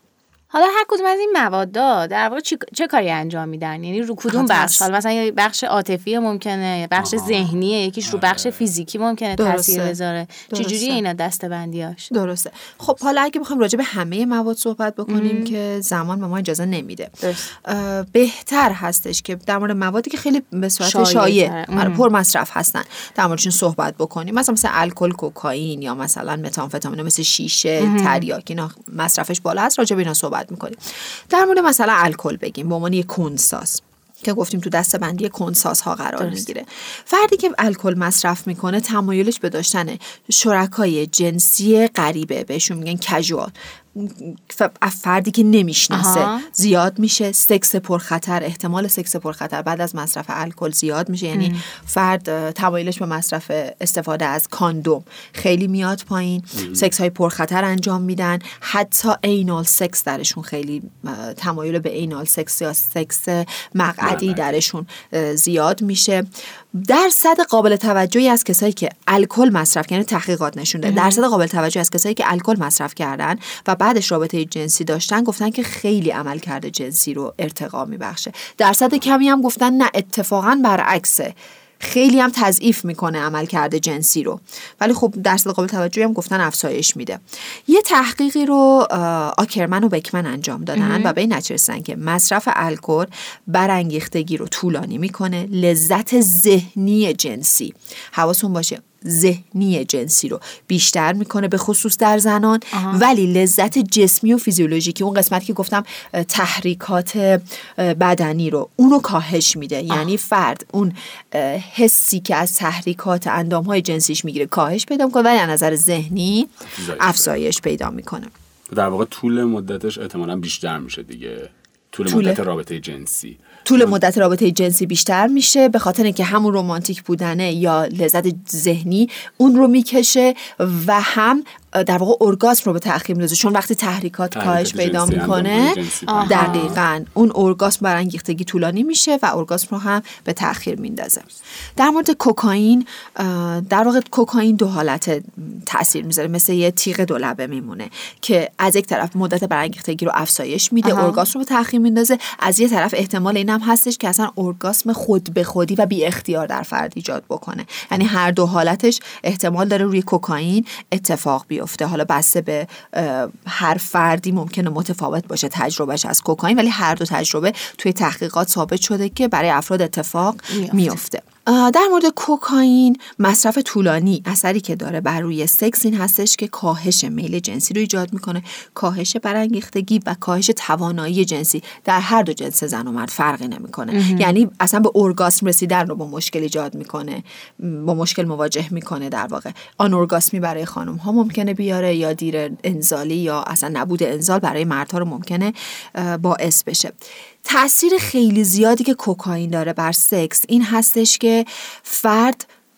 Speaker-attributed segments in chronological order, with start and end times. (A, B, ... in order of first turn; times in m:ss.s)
0:00.5-0:12.1 A
0:04.3-0:04.9 B
0:07.0-0:08.7 C
0:09.4-0:10.0 B
0:10.5-0:11.0 B
0:12.1-1:58.3 B
0:15.1-0:15.5 A
0:17.2-0:17.5 A
0:20.8-0:22.0 A
0:27.8-0:28.3 A
0:36.2-0:36.4 A
0:45.9-0:46.5 A
0:51.3-0:51.6 A
1:04.0-1:04.6 C
1:10.8-1:11.2 A
1:30.8-1:31.1 A
1:42.7-1:43.0 A
1:56.7-1:57.4 C
1:58.7-2:04.0 C
2:02.1-2:02.4 B
2:03.6-3:22.5 B
2:14.3-2:16.8 C
2:16.1-2:16.8 A
2:30.8-2:31.2 A
2:50.5-2:51.0 A
3:03.9-3:04.3 A